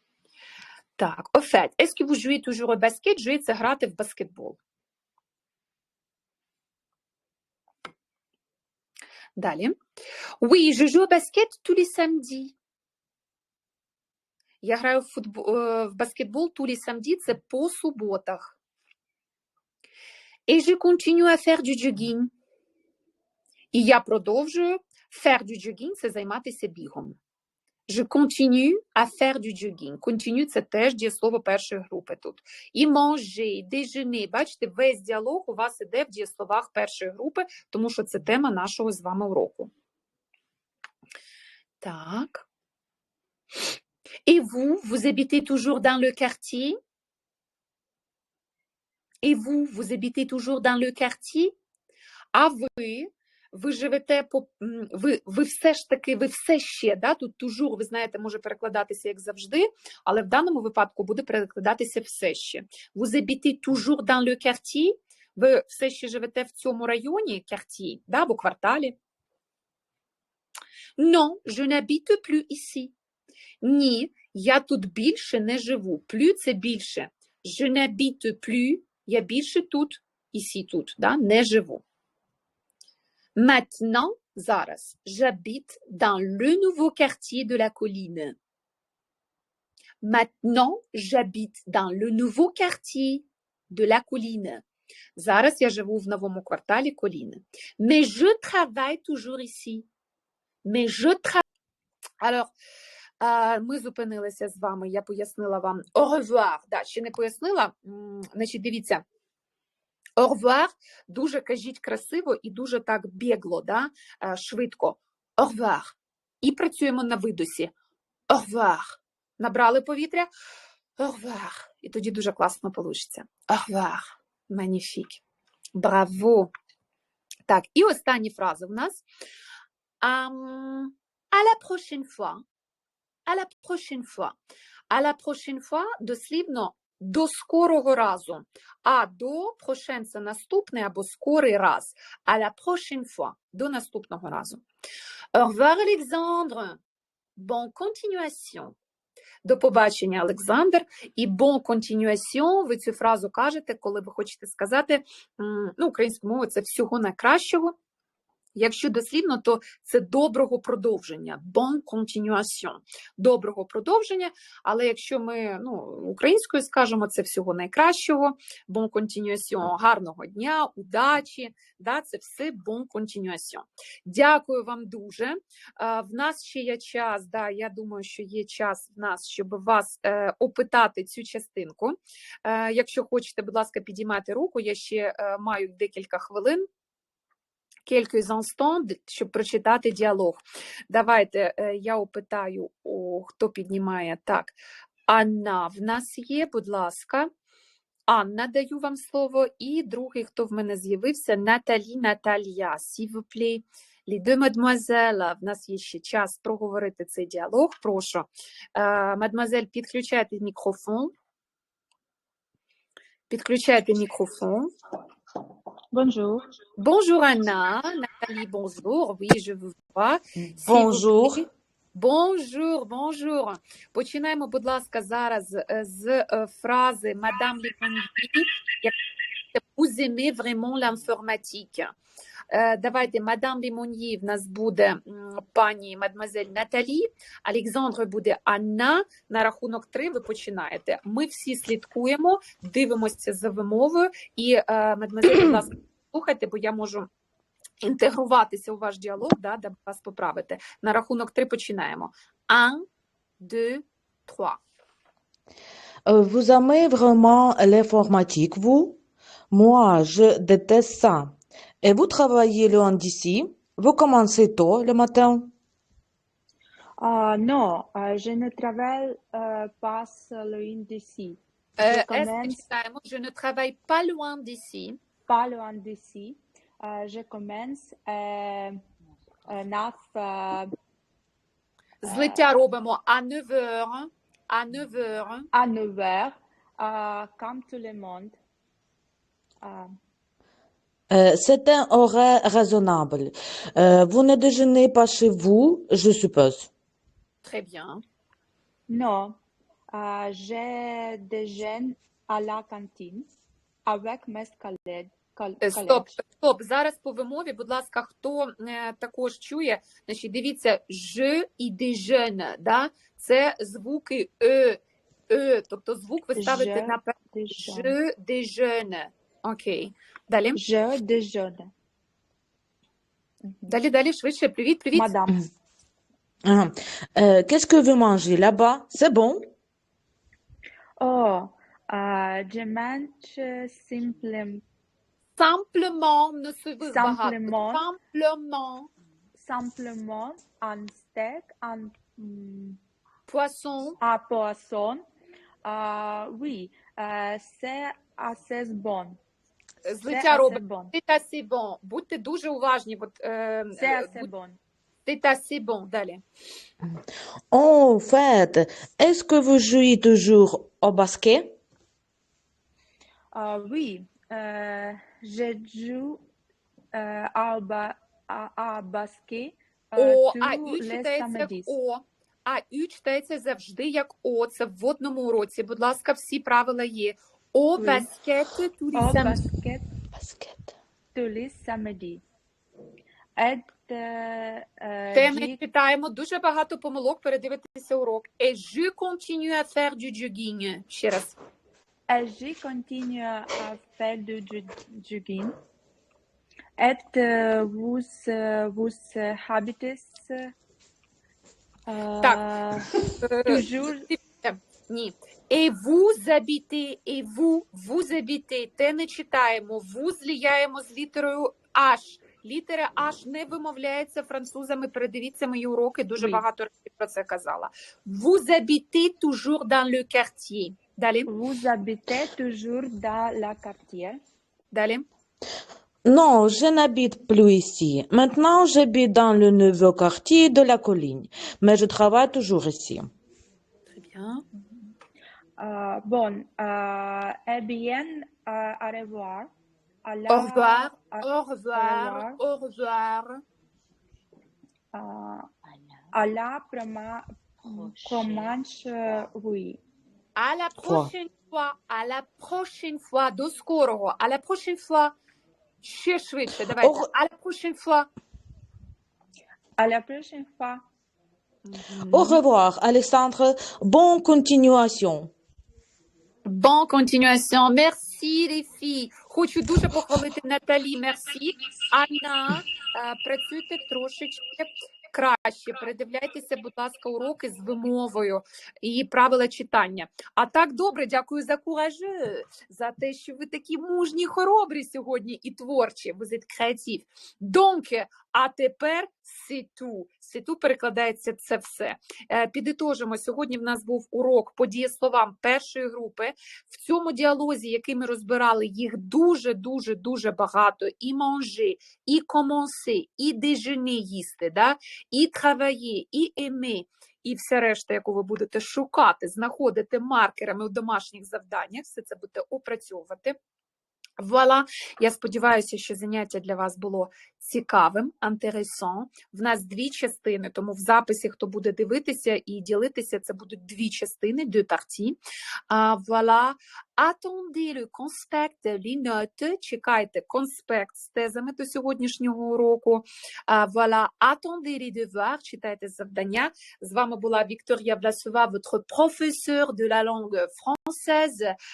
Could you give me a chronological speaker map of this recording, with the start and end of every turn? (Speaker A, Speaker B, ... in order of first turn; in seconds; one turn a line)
Speaker A: 1.0-4.6
Speaker A: 9.4-9.7
Speaker A: 10.4-12.5
Speaker A: 14.6-18.6
Speaker A: 20.5-22.3
Speaker A: 23.7-27.1
Speaker A: 27.9-39.7
Speaker A: 41.8-42.4
Speaker A: 44.2-46.8
Speaker A: 49.2-51.5
Speaker A: 52.3-68.9
Speaker A: 71.0-72.9
Speaker A: 73.6-81.8
Speaker A: 83.3-88.3
Speaker A: 90.0-94.6
Speaker A: 95.2-99.9
Speaker A: 100.6-101.4
Speaker A: 102.2-102.5
Speaker A: 103.2-109.0
Speaker A: 110.2-117.7
Speaker A: 118.3-120.3
Speaker A: 121.0-125.2
Speaker A: 125.7-126.5
Speaker A: 127.5-129.0
Speaker A: 130.0-132.4
Speaker A: 133.3-134.3
Speaker A: 134.9-144.6
Speaker A: 145.3-146.8
Speaker A: 147.4-148.7
Speaker A: 149.4-157.7
Speaker A: 158.5-186.7
Speaker A: 187.9-194.5
Speaker A: 195.1-197.3
Speaker A: 198.1-211.1
Speaker A: 213.3-214.7
Speaker B: 215.9-216.4
Speaker A: 216.8-228.9
Speaker C: 220.6-221.4
Speaker A: 229.5-231.9
Speaker A: 232.5-247.1
Speaker A: 247.8-252.8
Speaker A: 253.4-254.6
Speaker C: 256.1-259.0
Speaker C: 259.5-265.5
Speaker B: 267.0-272.6
Speaker A: 271.8-275.0
Speaker B: 275.3-278.8
Speaker B: 279.5-280.7
Speaker A: 282.0-285.5
Speaker B: 282.1-282.5
Speaker B: 285.5-288.4
Speaker B: 289.6-289.9
Speaker C: 291.1-296.7
Speaker A: 297.4-298.0
Speaker B: 298.9-299.4
Speaker B: 299.9-303.3
Speaker B: 303.9-306.1
Speaker A: 305.6-320.6
Speaker B: 316.4-317.9
Speaker B: 320.6-321.7
Speaker A: 323.6-325.1
Speaker B: 324.9-325.5
Speaker C: 326.4-329.5
Speaker B: 331.0-334.6
Speaker A: 335.4-338.9
Speaker B: 336.8-337.8
Speaker B: 339.4-342.8
Speaker A: 343.3-344.0
Speaker B: 344.0-345.0
Speaker B: 345.6-349.2
Speaker A: 349.8-354.3
Speaker B: 350.1-350.9
Speaker B: 353.8-354.6
Speaker A: 355.1-356.2
Speaker C: 357.5-361.6
Speaker B: 363.3-366.2
Speaker B: 366.9-371.7
Speaker A: 369.9-379.4
Speaker B: 377.8-378.1
Speaker B: 378.9-379.9
Speaker C: 380.1-380.7
Speaker B: 381.1-382.2
Speaker B: 383.4-385.6
Speaker A: 385.1-391.4
Speaker B: 392.1-395.6
Speaker B: 396.8-400.5
Speaker B: 401.9-402.9
Speaker A: 403.1-421.3
Speaker B: 403.4-404.1
Speaker B: 421.3-424.2
Speaker A: 424.7-425.0
Speaker C: 426.0-433.1
Speaker A: 433.9-434.4
Speaker B: 435.6-439.5
Speaker B: 440.0-442.4
Speaker A: 440.3-443.4
Speaker B: 444.9-445.5
Speaker B: 446.1-449.8
Speaker A: 450.4-455.1
Speaker C: 450.8-451.1
Speaker A: 455.8-458.1
Speaker C: 456.8-457.1
Speaker B: 459.8-460.8
Speaker A: 461.6-462.4
Speaker C: 462.1-465.3
Speaker A: 466.4-513.3
Speaker A: 514.2-525.2
Speaker A: 525.7-541.5